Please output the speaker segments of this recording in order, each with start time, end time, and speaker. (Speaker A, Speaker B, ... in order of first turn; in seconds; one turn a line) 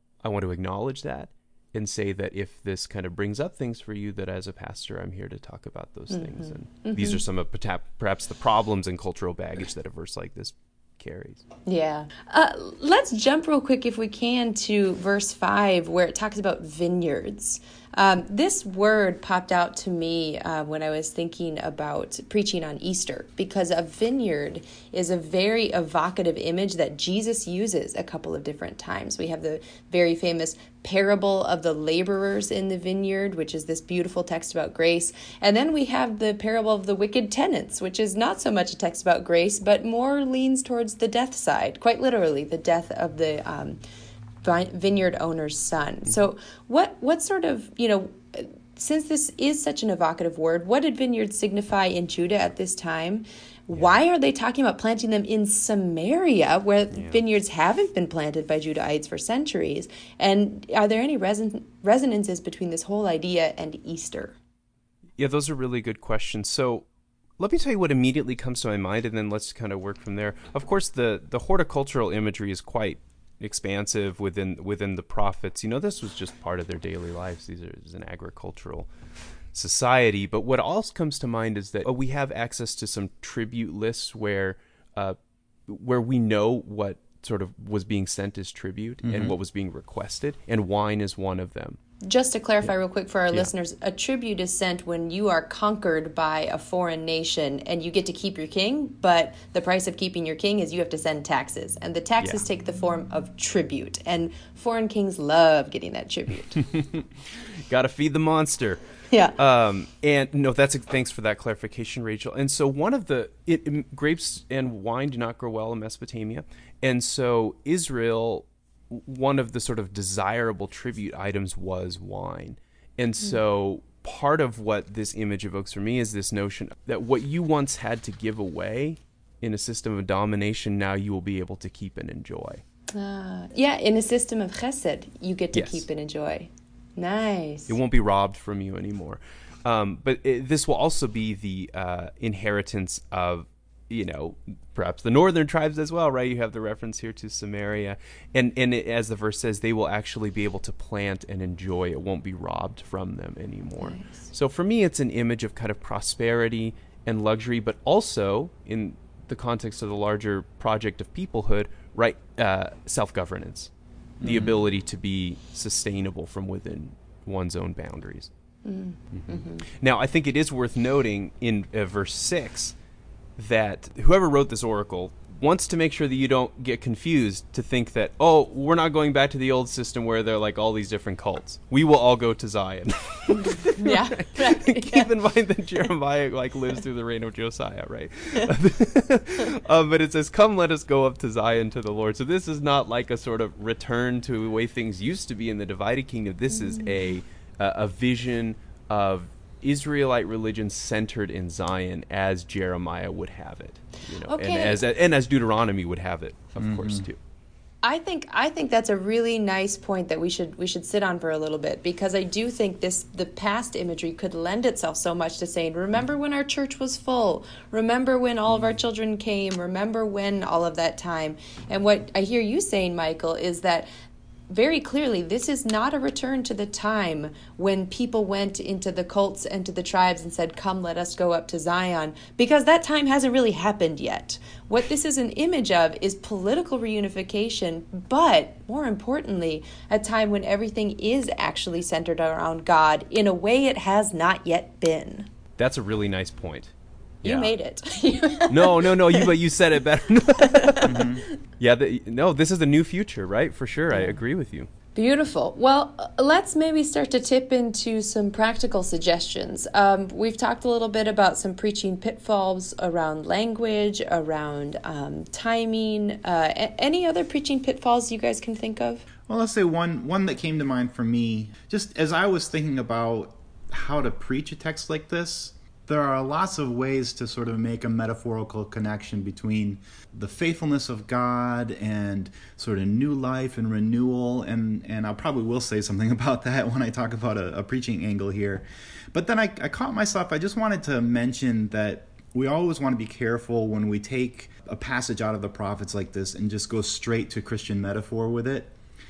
Speaker A: 0.2-11.4
Speaker B: 6.1-7.2
Speaker B: 11.7-43.8
Speaker B: 44.4-64.4
Speaker A: 56.9-57.2
Speaker A: 65.2-66.9
Speaker A: 67.4-78.9
Speaker A: 79.5-91.8
Speaker C: 89.0-89.4
Speaker B: 92.1-106.7
Speaker A: 106.6-108.8
Speaker B: 109.1-109.4
Speaker A: 109.4-132.6
Speaker B: 132.9-137.8
Speaker A: 135.5-135.8
Speaker A: 137.7-163.7
Speaker B: 153.8-154.3
Speaker C: 164.2-164.6
Speaker A: 164.2-168.3
Speaker B: 168.7-169.7
Speaker A: 169.7-172.8
Speaker A: 173.4-207.2
Speaker B: 183.3-185.1
Speaker B: 196.5-196.9
Speaker B: 204.2-204.8
Speaker C: 206.6-207.1
Speaker B: 207.8-223.9
Speaker B: 224.5-245.3
Speaker A: 245.6-247.5
Speaker B: 247.2-249.3
Speaker A: 248.5-251.0
Speaker B: 250.4-251.1
Speaker C: 250.8-251.2
Speaker A: 251.6-254.7
Speaker B: 253.9-254.2
Speaker B: 254.9-269.1
Speaker C: 269.3-298.7